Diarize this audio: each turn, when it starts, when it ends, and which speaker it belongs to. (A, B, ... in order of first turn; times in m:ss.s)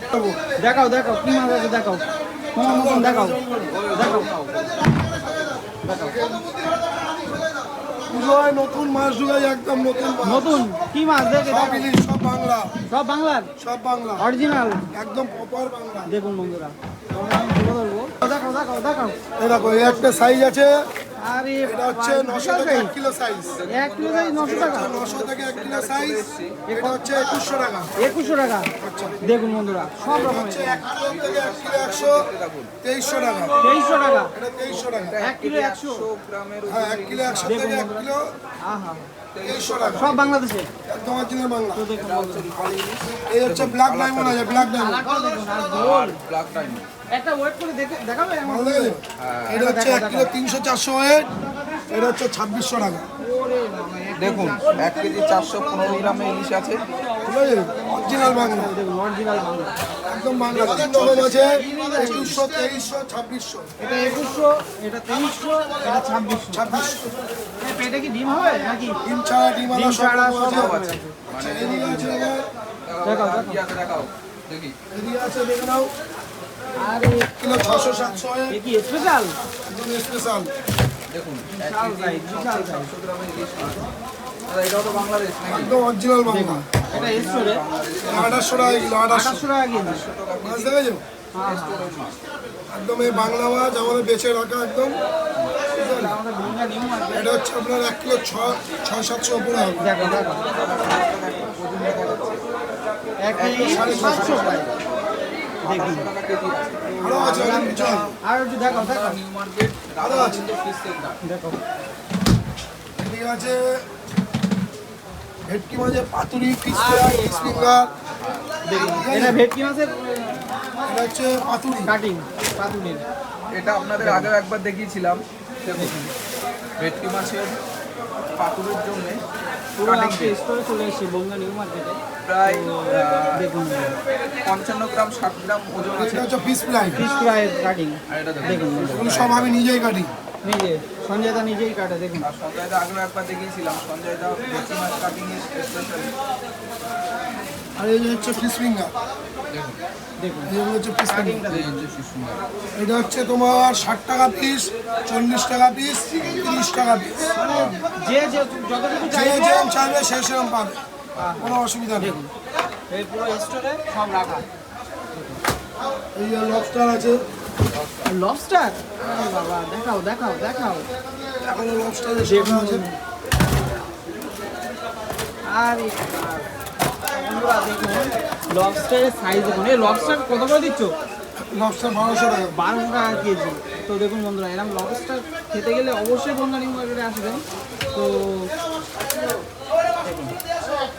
0:00.1-0:00.4 A
0:00.5-0:03.4 B
0:02.6-0:04.0 A
0:03.7-0:05.7 C
0:03.9-0:04.3 B
0:05.8-0:06.4 B
0:06.0-0:06.5 A
0:08.1-0:10.6 A
0:10.2-0:11.9 B
0:11.4-0:12.7 A
0:12.9-0:13.5 B
0:13.6-0:14.3 A
0:14.2-0:14.9 B
0:14.9-0:16.1 A
0:16.1-0:19.3 B
0:19.4-0:20.9 A
0:19.8-0:20.0 B
0:21.2-0:22.9 B
0:21.6-0:23.6 A
0:23.5-0:26.7 C
0:23.7-0:25.0 B
0:24.4-0:28.0 A
0:26.7-0:27.2 B
0:27.3-0:30.1 C
0:28.0-0:30.9 B
0:28.8-0:29.2 A
0:30.0-0:32.3 A
0:31.0-0:32.8 C
0:32.8-0:33.7 A
0:33.6-0:34.3 B
0:34.3-0:35.2 A
0:34.8-0:37.6 C
0:35.2-0:36.1 B
0:36.7-0:38.3 A
0:37.4-0:38.1 B
0:38.6-0:39.1 B
0:39.3-0:40.4 C
0:39.4-0:40.1 A
0:40.0-0:40.7 B
0:40.9-0:41.9 A
0:41.8-0:42.5 B
0:42.0-0:44.6 C
0:43.3-0:45.1 A
0:44.5-0:46.2 B
0:45.7-0:46.9 C
0:47.1-0:49.0 B
0:48.4-0:51.3 A
0:49.2-0:49.6 C
0:49.6-0:50.3 B
0:51.9-0:53.0 A
0:53.2-0:59.8 B
0:54.2-0:56.8 C
0:57.2-0:58.8 A
1:00.1-1:03.7 A
1:00.5-1:01.6 C
1:00.5-1:02.4 B
1:03.8-1:06.8 B
1:06.5-1:07.2 A
1:07.6-1:09.0 B
1:09.0-1:10.8 A
1:09.7-1:11.2 B
1:10.5-1:12.1 C
1:11.3-1:12.4 A
1:12.9-1:14.8 C
1:13.0-1:13.6 B
1:14.9-1:15.9 A
1:16.8-1:19.4 B
1:17.4-1:18.6 A
1:19.7-1:20.5 A
1:21.1-1:23.9 C
1:21.5-1:22.9 B
1:24.5-1:25.8 C
1:25.5-1:26.6 A
1:26.3-1:27.6 B
1:26.9-1:29.0 C
1:28.0-1:29.5 A
1:29.1-1:30.0 B
1:29.7-1:30.8 C
1:30.4-1:31.0 A
1:31.3-1:31.9 B
1:31.4-1:32.2 C
1:32.7-1:35.0 A
1:33.0-1:33.3 B
1:35.7-1:36.2 A
1:35.8-1:37.4 B
1:37.1-1:39.8 A
1:39.8-1:40.4 B
1:39.9-1:42.5 C
1:43.2-1:44.7 B
1:43.3-1:44.8 C
1:43.6-1:44.6 A
1:45.6-1:51.2 C
1:45.6-1:46.1 B
1:46.9-1:49.2 B
1:47.0-1:48.1 A
1:50.0-1:50.4 A
1:51.2-1:51.6 B
1:53.0-1:53.9 A
1:55.5-1:57.9 A
1:56.7-1:58.0 B
1:58.2-1:58.5 C
1:58.6-2:00.5 B
1:58.8-1:59.4 A
2:00.8-2:01.9 A
2:01.8-2:03.0 B
2:03.5-2:06.1 C
2:04.0-2:04.3 B
2:05.7-2:06.1 B
2:06.8-2:07.6 C
2:08.3-2:09.2 C
2:09.8-2:14.0 B
2:09.8-2:10.4 C
2:12.2-2:13.5 C
2:14.4-2:16.3 C
2:16.0-2:17.0 A
2:17.0-2:19.2 B
2:18.1-2:19.6 C
2:18.8-2:20.1 A
2:20.4-2:22.3 B
2:22.2-2:26.1 C
2:27.8-2:28.9 A
2:29.5-2:29.8 C
2:30.2-2:30.5 B
2:30.5-2:31.5 A
2:31.1-2:31.8 B
2:31.5-2:32.4 C
2:32.8-2:37.4 A
2:37.3-2:39.7 B
2:37.5-2:37.8 C
2:39.1-2:40.8 A
2:41.2-2:42.3 B
2:41.4-2:42.2 A
2:42.9-2:44.5 B
2:46.2-2:47.2 A
2:47.7-2:48.1 C
2:48.0-2:50.9 B
2:49.0-2:49.4 C
2:51.4-2:52.9 A
2:52.2-2:53.0 B
2:55.5-2:56.5 B
2:57.1-3:01.0 B
2:59.3-3:00.2 C
3:01.4-3:02.6 A
3:02.5-3:08.5 B
3:10.0-3:10.4 B